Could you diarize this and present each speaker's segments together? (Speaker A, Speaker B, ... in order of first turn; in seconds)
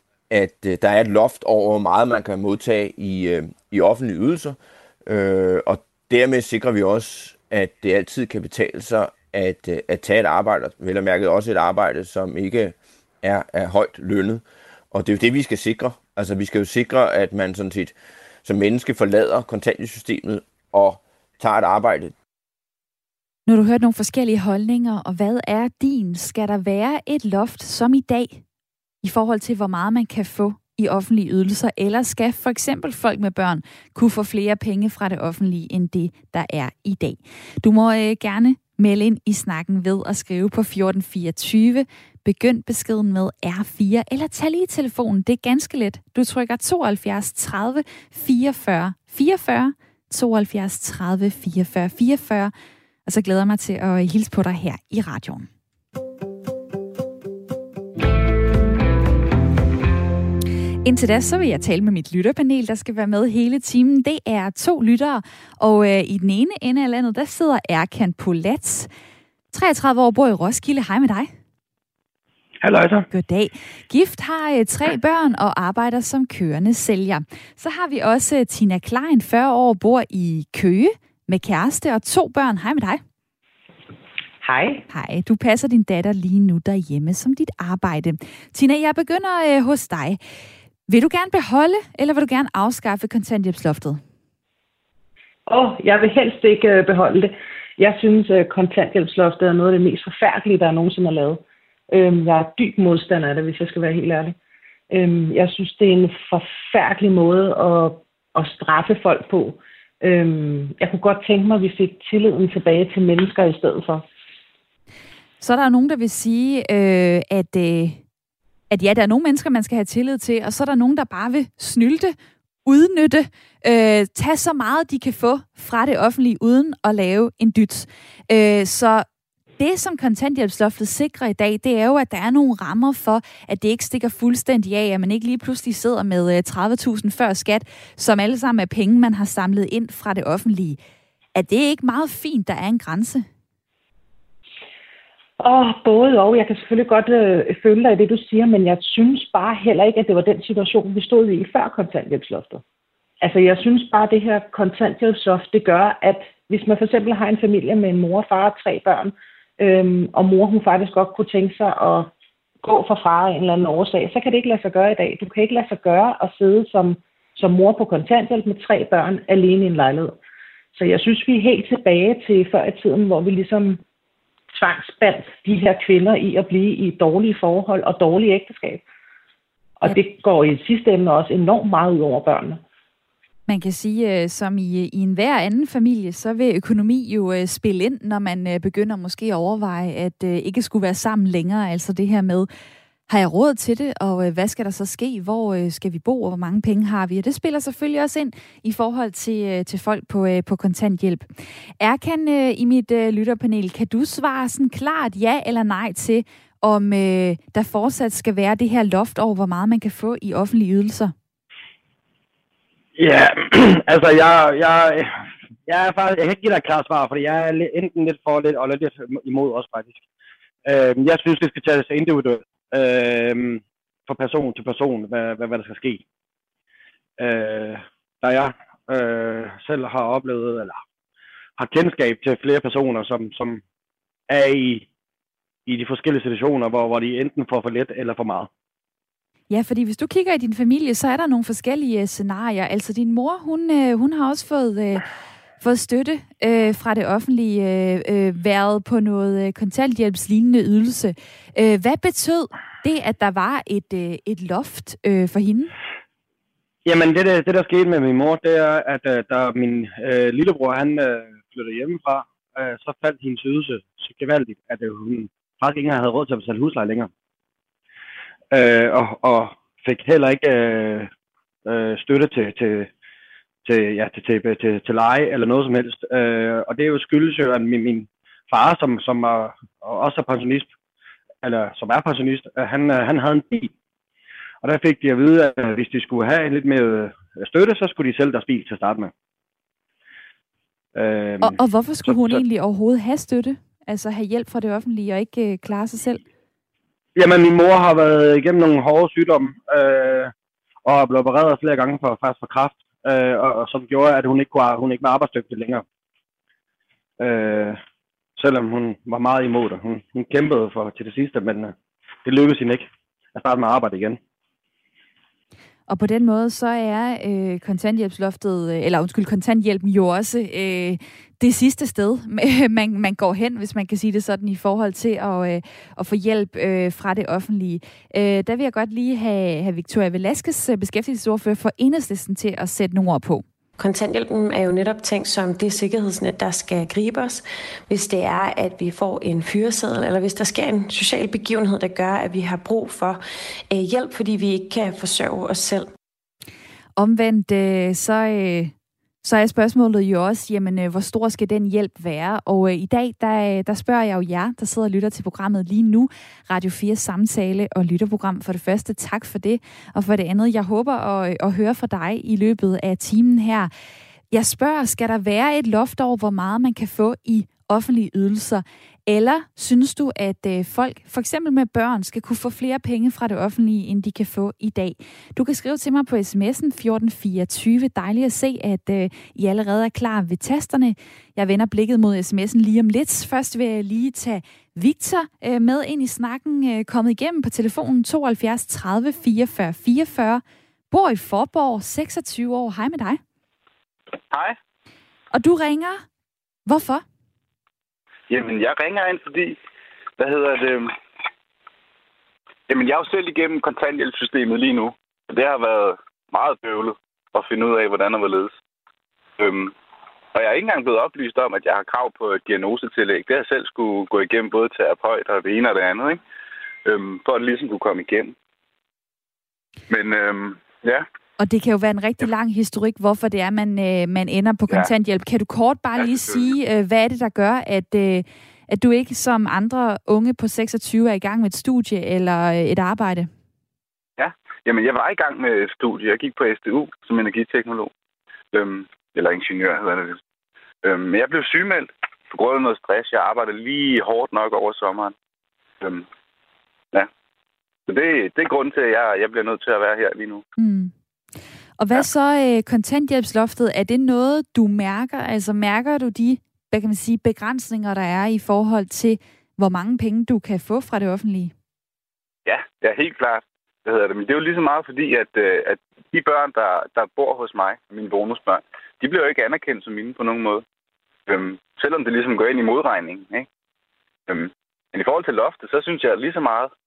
Speaker A: 0.3-22.1
Speaker B: 23.5-28.4, 29.0-52.5, 53.1-55.5, 60.8-68.9, 69.5-71.3, 73.1-83.0, 84.9-90.2, 90.9-94.0, 115.4-118.0, 118.7-129.0, 129.6-140.8, 141.3-143.3, 183.5-192.5, 193.1-201.3, 201.8-211.1, 239.5-245.0, 245.6-255.7, 291.4-296.2, 315.9-333.4, 347.0-363.7, 364.3-393.2, 395.3-396.0, 396.7-397.0, 421.4-433.3, 450.6-450.9, 451.8-461.5
Speaker C: 72.6-73.1, 213.0-220.0, 220.7-226.0, 227.2-230.8, 231.6-233.6, 234.3-234.8, 235.7-238.5, 256.9-267.1, 268.5-271.1, 271.6-272.9, 273.6-280.7, 281.4-283.7, 284.6-289.1, 290.9-292.4, 297.1-300.3, 300.9-305.8, 307.2-307.8, 308.4-311.7, 312.2-314.2
Speaker D: 84.4-84.8, 95.5-104.4, 104.9-114.0, 145.4-152.6, 153.2-162.1, 162.6-170.2, 170.8-173.8, 174.5-178.8, 179.8-182.6
Speaker E: 333.8-345.9
Speaker F: 394.3-394.6, 398.3-399.6, 400.2-400.9, 402.7-408.5, 409.4-409.7, 410.3-416.2, 416.9-418.3, 419.9-421.0, 426.0-426.4, 434.2-437.9, 438.5-440.2, 440.8-445.1, 445.8-446.1, 447.9-450.4, 462.4-470.6, 471.3-473.4, 474.3-476.7